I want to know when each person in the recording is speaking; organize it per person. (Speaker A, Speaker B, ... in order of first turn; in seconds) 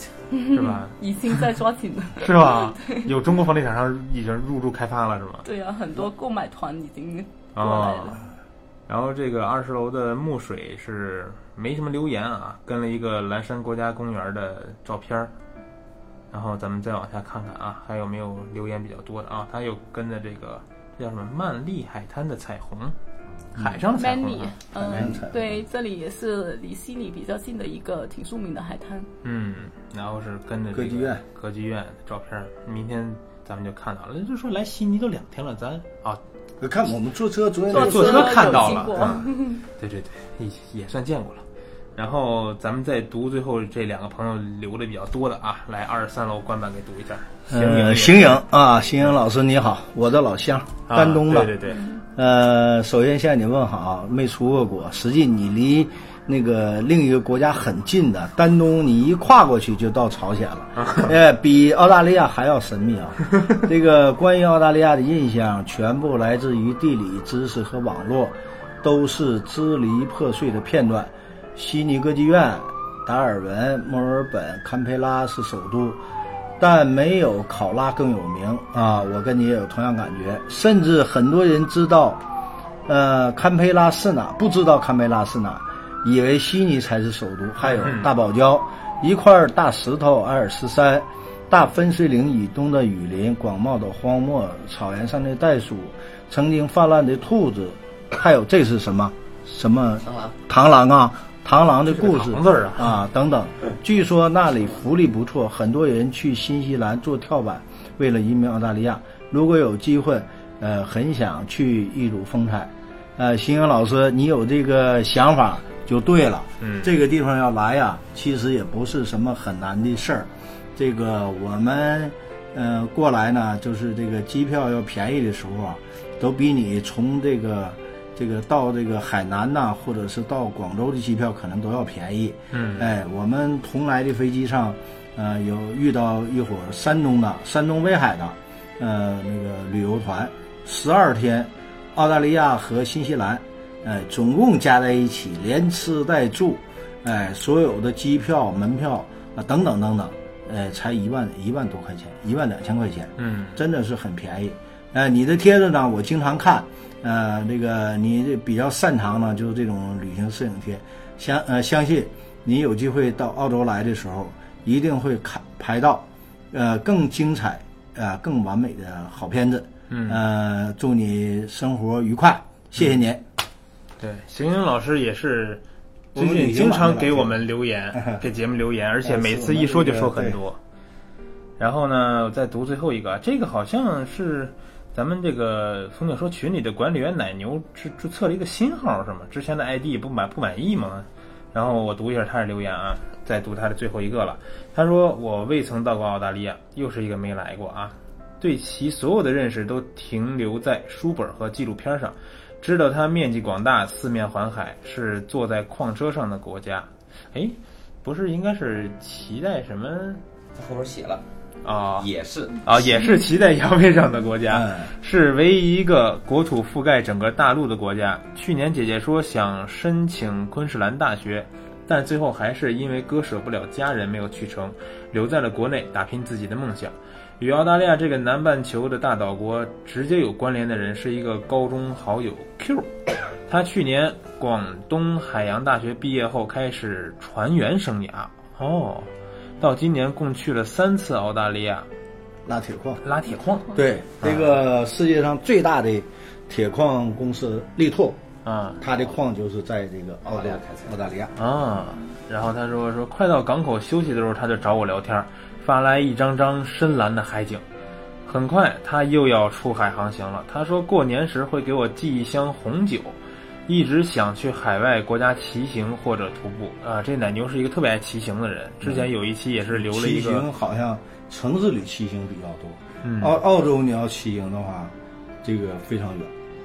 Speaker A: 0.3-3.0, 5.4-8.2, 23.9-29.1, 37.7-39.6
Speaker B: 0.5-1.4, 2.2-5.5, 7.6-8.2, 8.9-15.3, 16.3-23.0, 23.5-24.6, 29.2-36.2, 37.7-39.2, 39.8-41.5, 42.0-48.4, 50.9-51.9, 60.8-61.1, 87.6-88.1, 101.9-103.0, 116.6-116.9, 132.5-132.9, 153.2-153.6, 169.9-170.2, 174.0-175.6, 176.2-180.6, 181.6-210.2, 211.6-212.1, 212.6-232.9, 233.5-241.9, 243.0-244.6, 248.4-248.8, 251.4-257.6, 258.3-270.5, 273.0-273.4
Speaker C: 23.6-23.8, 24.8-25.6, 30.7-31.2, 36.6-39.2, 47.5-51.5, 52.2-76.0, 76.6-82.2, 82.9-173.3, 176.2-177.4, 179.0-180.4, 214.5-214.9, 242.5-243.0, 243.8-248.2, 248.8-251.3, 268.8-269.1, 269.7-276.3
Speaker D: 210.6-211.2, 212.0-213.0, 250.2-250.9